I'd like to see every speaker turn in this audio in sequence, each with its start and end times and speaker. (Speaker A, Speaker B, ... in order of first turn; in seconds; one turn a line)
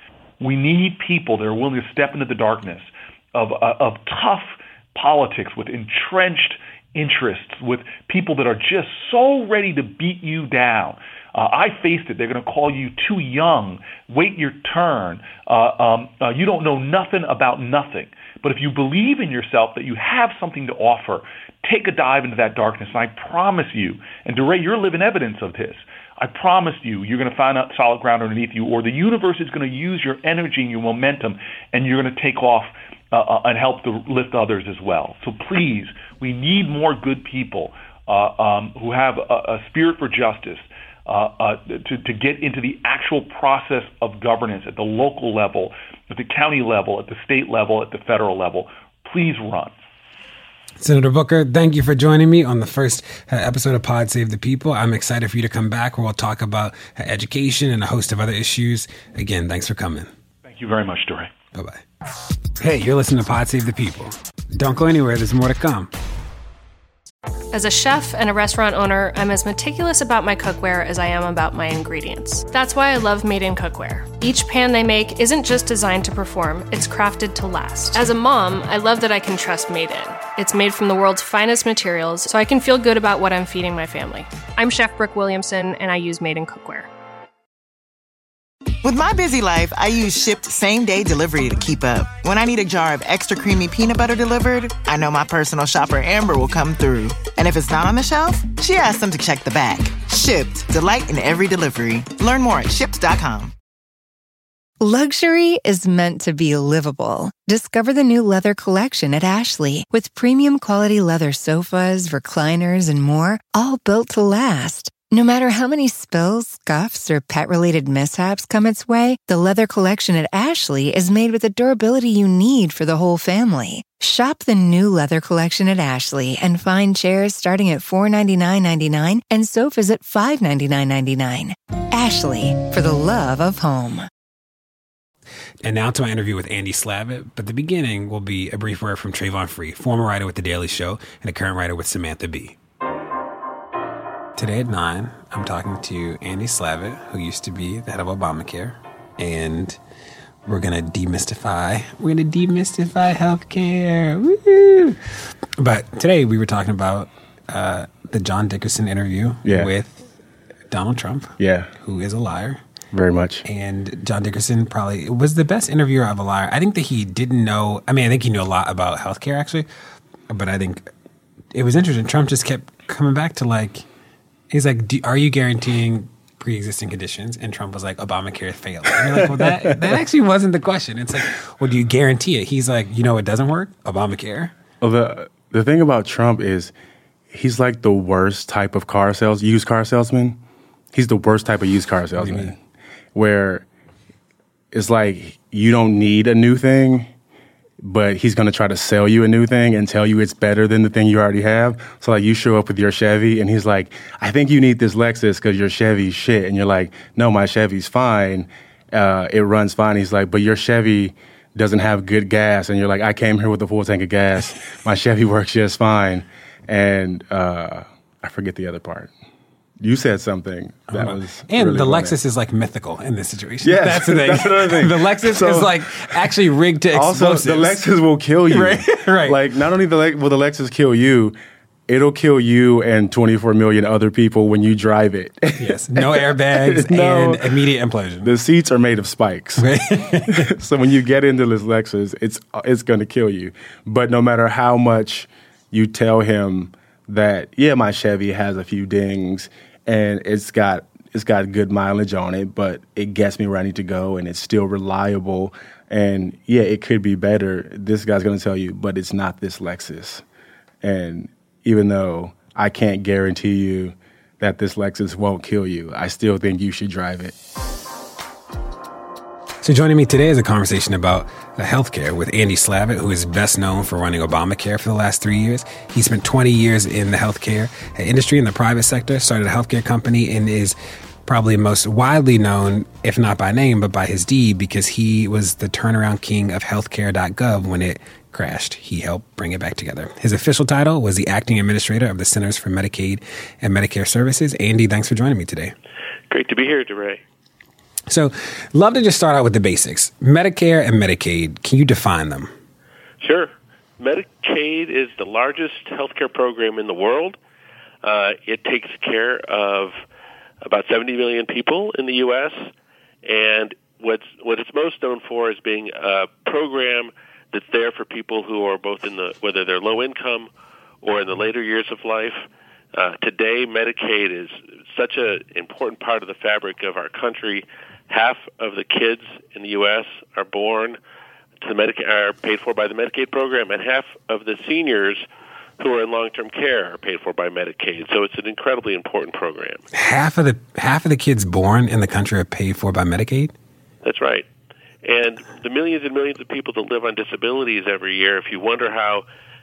Speaker A: 0.4-49.7
Speaker B: 50.8-60.1
Speaker A: 60.4-61.3
Speaker B: 61.5-61.8
Speaker B: 62.6-65.9
Speaker C: 67.5-86.9
Speaker D: 88.8-103.5
Speaker E: 104.8-134.1
Speaker B: 135.6-142.6
Speaker B: 144.4-149.8
Speaker B: 150.4-155.0
Speaker B: 155.6-160.1
Speaker F: 159.4-159.7
Speaker B: 160.7-162.6
Speaker F: 161.4-161.7
Speaker F: 162.9-163.4
Speaker B: 163.4-169.7
Speaker B: 170.3-170.9
Speaker B: 171.5-173.9
Speaker B: 174.5-184.5
Speaker F: 179.1-179.8
Speaker F: 184.8-186.7
Speaker F: 187.3-190.4
Speaker F: 190.9-192.6
Speaker B: 192.2-192.5
Speaker F: 193.1-193.7
Speaker F: 194.7-197.1
Speaker F: 197.8-219.1
Speaker F: 219.8-222.2
Speaker B: 220.9-227.8
Speaker F: 223.6-226.3
Speaker F: 226.9-231.4
Speaker B: 228.5-229.4
Speaker F: 231.9-237.6
Speaker B: 235.6-238.3
Speaker F: 238.2-239.7
Speaker B: 239.6-240.5
Speaker F: 240.3-260.2
Speaker F: 260.8-267.3
Speaker B: 269.6-295.7
Speaker G: 296.3-297.2
Speaker B: 298.1-302.5
Speaker G: 303.2-307.4
Speaker G: 308.0-310.0
Speaker G: 310.6-312.7
Speaker G: 313.2-320.5
Speaker G: 321.0-331.0
Speaker G: 331.6-335.3
Speaker G: 335.8-339.8
Speaker B: 339.9-343.5
Speaker G: 344.0-344.5
Speaker G: 345.0-349.2